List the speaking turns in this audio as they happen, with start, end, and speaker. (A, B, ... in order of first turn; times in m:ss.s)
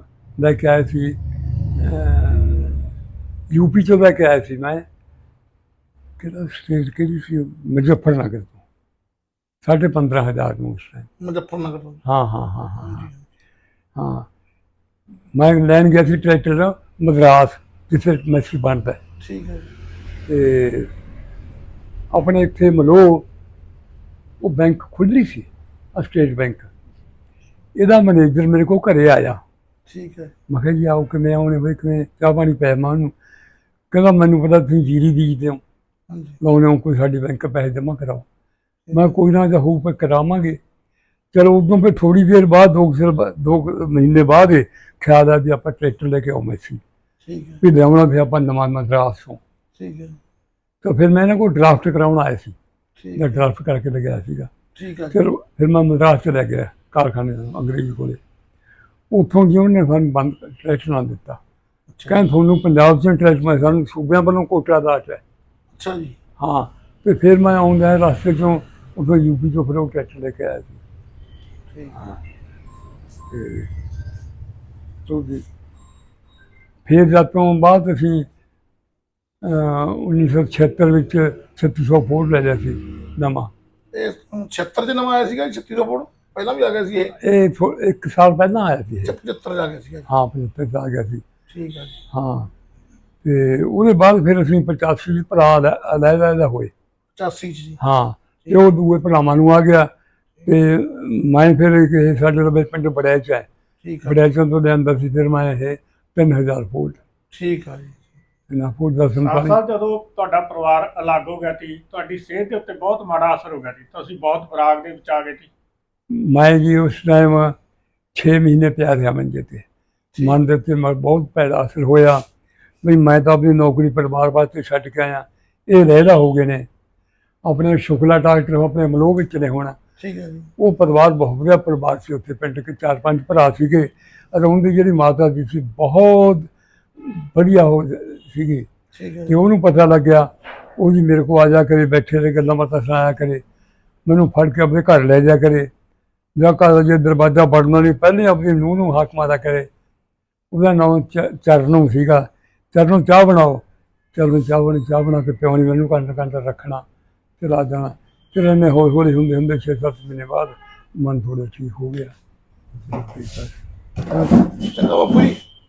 0:00.4-0:01.2 A
0:01.8-0:02.9 A
0:03.5-0:04.8 A
0:06.2-0:08.6 A
0:09.6-0:11.1 A
0:11.2-0:12.0 B
0:12.0-0:13.1 A
0:12.8-0:13.2 B
0:14.0-0:14.3 A
0:15.4-0:19.0 A
0:19.2-0:19.7 B
0:20.3-0:20.9 A
0:22.1-0:23.3 A
0:24.4-0:26.7 A
0:27.8-0:29.4 A
0:29.9-0:30.3 B
0:30.5-0:33.1 A
0:33.9-0:35.6 A
0:36.1-0:36.4 B
0:36.4-0:38.2 A
0:38.9-0:39.2 B
0:38.9-0:40.6 A
0:41.3-0:46.8 A
0:47.2-0:47.6 B
0:47.6-0:49.4 A
0:49.8-0:50.2 B
0:50.8-0:52.6 A
0:53.0-0:53.4 B
0:53.2-0:54.5 A
0:54.8-0:55.2 B
0:55.1-0:58.2 A
0:59.1-1:01.4 A
1:02.1-1:05.2 A
1:05.7-1:06.2 B
1:06.4-1:10.8 A
1:11.7-1:12.0 B
1:13.3-1:13.7 A
1:15.1-1:15.4 A
1:16.9-1:18.3 A
1:19.4-1:23.5 A
1:23.9-1:27.2 B
1:27.2-1:29.2 A
1:29.0-1:30.1 B
1:30.1-1:31.2 A
1:31.5-1:32.0 B
1:32.1-1:32.5 A
1:33.2-1:36.7 A
1:37.2-1:37.8 B
1:37.8-1:39.9 A
1:40.4-1:43.5 A
1:43.8-1:44.2 B
1:44.0-1:47.0 A
1:47.3-1:48.0 B
1:48.5-1:49.6 A
1:49.2-1:55.5 C
1:56.1-1:57.6 A
1:58.2-1:59.6 A
2:00.2-2:02.2 A
2:02.8-2:06.7 A
2:07.4-2:09.8 A
2:10.0-2:10.5 B
2:10.6-2:18.7 A
2:18.9-2:19.4 B
2:19.3-2:23.4 A
2:24.1-2:25.7 A
2:26.4-2:29.7 A
2:30.5-2:36.8 A
2:37.4-2:42.1 A
2:42.9-2:44.5 A
2:44.5-2:45.4 B